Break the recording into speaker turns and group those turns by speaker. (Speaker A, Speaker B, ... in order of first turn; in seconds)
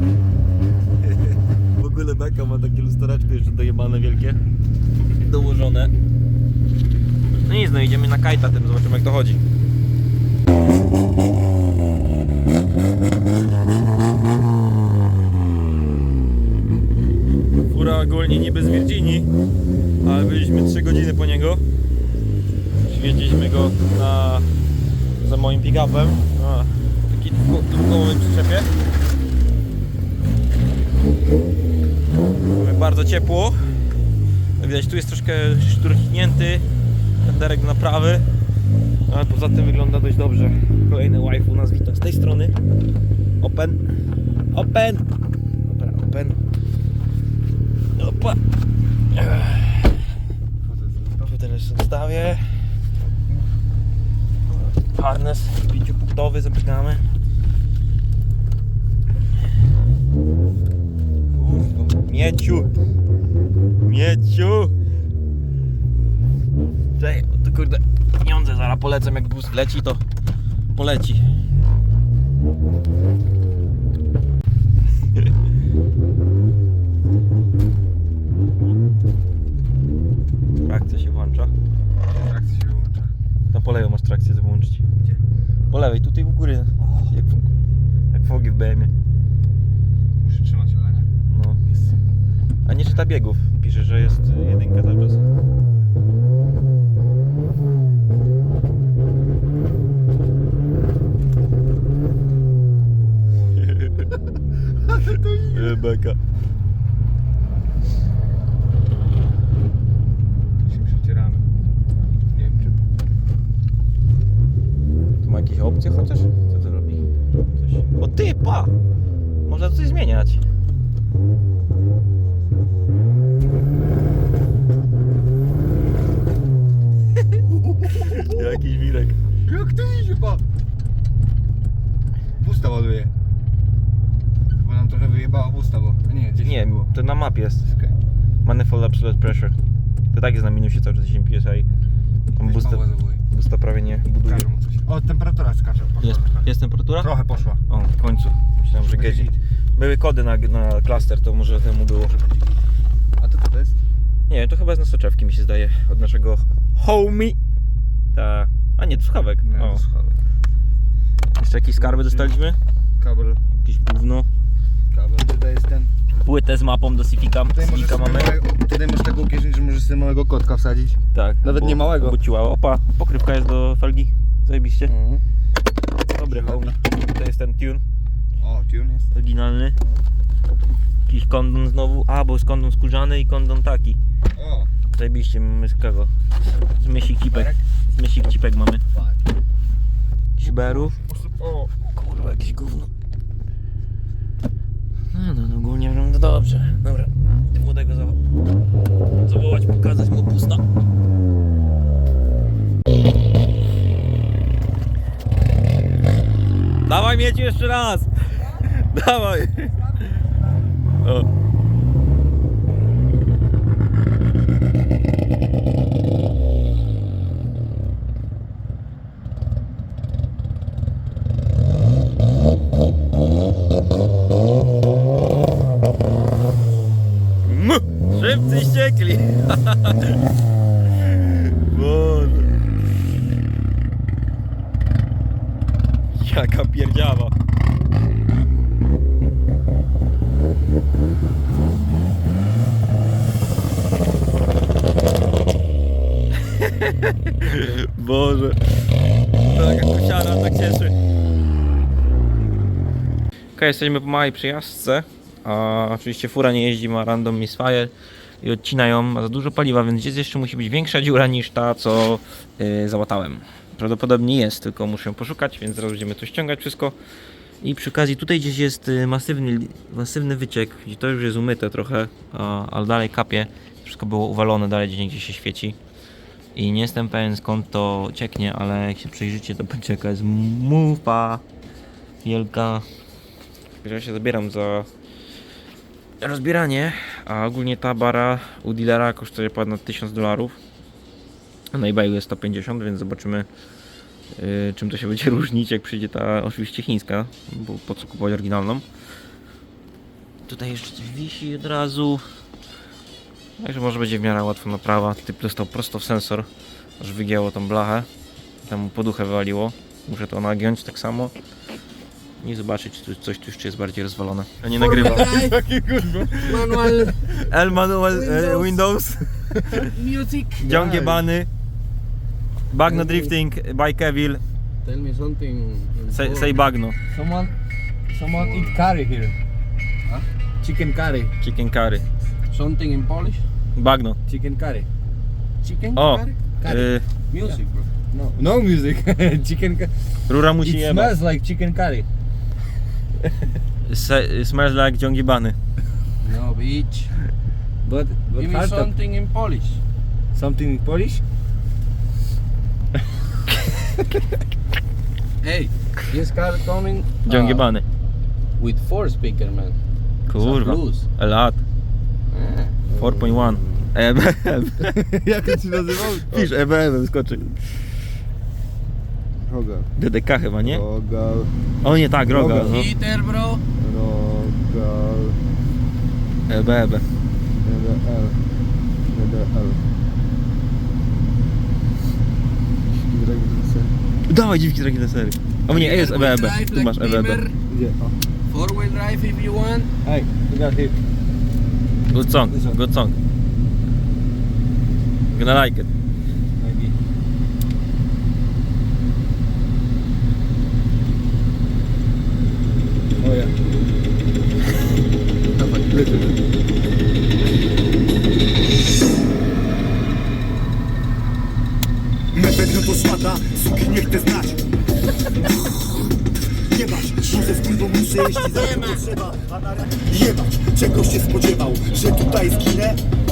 Speaker A: 1.0-4.4, 5.2-5.9, 7.4-9.4, 17.7-19.3, 20.0-21.6, 22.9-24.5, 25.2-28.7, 32.5-33.7, 34.6-36.7, 37.2-38.3, 39.1-42.6, 43.4-43.8, 44.5-45.0, 45.6-46.4, 48.0-48.4, 49.1-50.0, 51.2-52.6, 54.6-57.1, 62.0-62.7, 63.8-64.7, 67.0-70.0, 70.7-71.3, 80.6-81.5, 83.5-84.8, 85.7-87.5, 88.1-88.9, 91.3-91.6, 92.7-95.2, 103.6-104.1, 105.5-106.2, 115.2-117.0, 118.0-118.7, 119.5-120.4, 127.8-129.2, 136.4-137.7, 138.4-139.6, 140.1-141.7, 142.3-144.5, 146.0-152.1, 154.3-157.4, 158.1-159.8, 161.4-162.6, 163.6-164.3, 166.2-168.4, 171.1-174.9, 176.0-177.8, 179.1-179.8, 181.1-184.0, 184.9-188.8, 190.4-191.0, 191.9-192.9, 195.1-198.2, 199.2-200.6, 206.9-210.0, 211.0-211.3, 227.4-230.2, 231.0-232.5, 236.1-237.3, 246.5-248.6, 249.4-251.0, 253.6-267.0, 267.6-275.8, 276.6-281.4, 282.2-282.9, 283.8-284.9, 286.2-290.6, 291.7-293.5, 294.4-298.9, 300.5-302.2, 303.6-306.5, 307.0-308.1, 308.6-311.3, 312.4-315.3, 317.4-319.9, 320.6-321.5, 322.7-324.4, 326.1-327.0, 331.4-332.0, 333.8-334.2, 335.9-337.1, 340.3-341.2, 343.9-345.6, 357.2-357.9, 360.3-361.6, 362.9-365.0, 365.9-367.8, 370.0-370.8, 371.8-372.9, 376.5-377.0, 384.3-387.4, 392.1-393.1, 395.3-395.9
Speaker B: 50.6-51.3, 61.3-61.9, 82.1-83.1, 86.8-87.2, 90.2-91.1, 104.8-105.8, 110.7-111.5, 112.3-112.8, 129.5-130.4, 132.4-133.1, 134.6-136.9, 137.7-137.9, 142.4-143.2, 143.9-146.5, 147.0-147.6, 148.7-149.4, 152.0-152.5, 153.2-153.8, 159.4-160.2, 161.8-162.3, 163.0-163.4, 164.9-165.9, 167.5-172.2, 174.9-175.2, 176.2-176.8, 178.4-179.1, 184.4-184.7, 187.3-187.6, 188.9-189.2, 190.4-191.7, 314.9-317.4, 320.7-321.2, 327.1-327.5, 328.1-329.4, 330.6-331.3, 334.3-334.9, 336.6-336.9, 338.1-340.0, 340.6-342.1, 347.9-348.9, 350.4-351.2, 362.9-363.9, 364.9-366.5, 369.5-369.9, 370.6-371.6, 372.2-372.8, 373.8-375.4, 377.6-378.4, 379.1-379.8, 382.9-383.9, 387.7-388.2, 390.0-391.0, 392.5-392.8, 396.6-396.9, 403.2-403.5, 405.6-406.4
Speaker C: 314.7-315.6, 316.4-317.2, 318.1-318.8, 319.8-320.8, 322.8-323.3, 324.8-326.5, 328.3-328.8, 332.5-333.4, 335.6-336.5, 337.3-337.9, 346.2-347.1, 348.3-349.8, 355.4-357.7, 358.6-359.8, 360.4-361.0, 362.3-362.8, 372.6-373.6, 385.7-387.6, 388.5-389.9, 418.2-419.0
Speaker D: 412.3-414.6, 416.7-423.0